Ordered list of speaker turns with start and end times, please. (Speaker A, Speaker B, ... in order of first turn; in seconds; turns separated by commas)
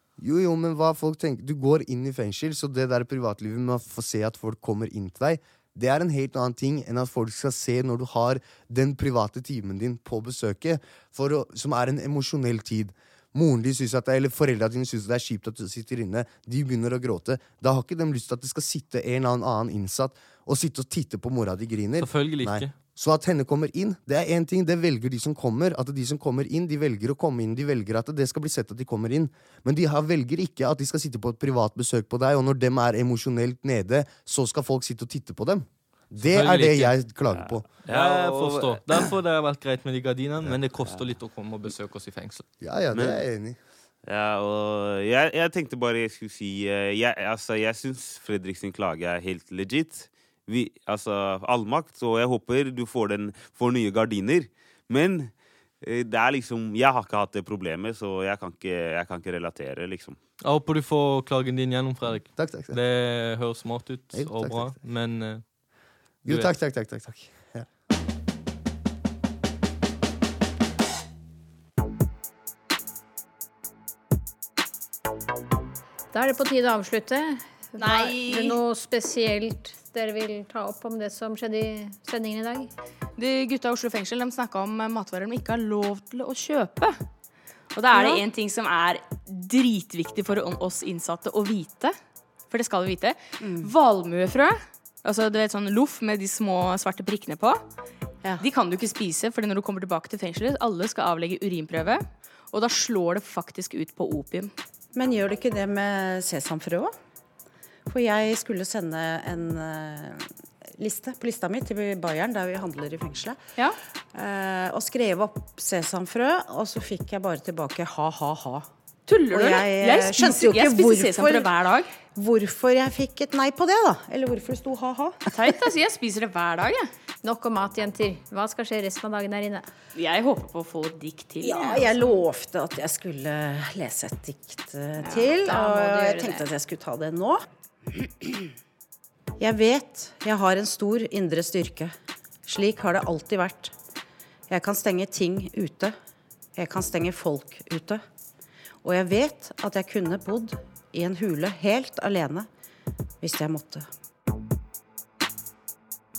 Speaker A: 0.2-37.7, Speaker B: 22.0-22.7, Speaker B: 36.2-37.0, Speaker C: 37.4-39.1, Speaker B: 37.9-42.5, Speaker C: 40.8-41.1, Speaker A: 42.6-43.6, Speaker C: 42.9-43.2, Speaker C: 44.1-60.2, Speaker B: 60.4-65.5, Speaker A: 62.4-62.8, Speaker A: 64.1-64.8, Speaker A: 66.2-67.7, Speaker B: 66.3-66.5, Speaker D: 76.1-82.7, Speaker E: 77.8-78.6, Speaker E: 83.2-87.0, Speaker E: 87.7-92.0, Speaker F: 87.9-88.2, Speaker E: 92.5-97.6, Speaker F: 93.4-93.7, Speaker E: 98.3-104.5, Speaker F: 105.0-106.9, Speaker F: 107.9-110.3, Speaker F: 110.8-113.4, Speaker F: 114.1-118.7, Speaker E: 119.1-122.0, Speaker F: 119.3-121.5, Speaker F: 122.1-125.5, Speaker E: 125.3-126.9, Speaker D: 127.2-129.7, Speaker E: 129.9-132.0, Speaker F: 131.4-137.4, Speaker E: 135.0-136.5, Speaker F: 139.4-141.9, Speaker F: 142.5-143.7, Speaker F: 144.5-146.0, Speaker F: 146.6-148.0, Speaker F: 148.8-152.5, Speaker F: 153.2-153.9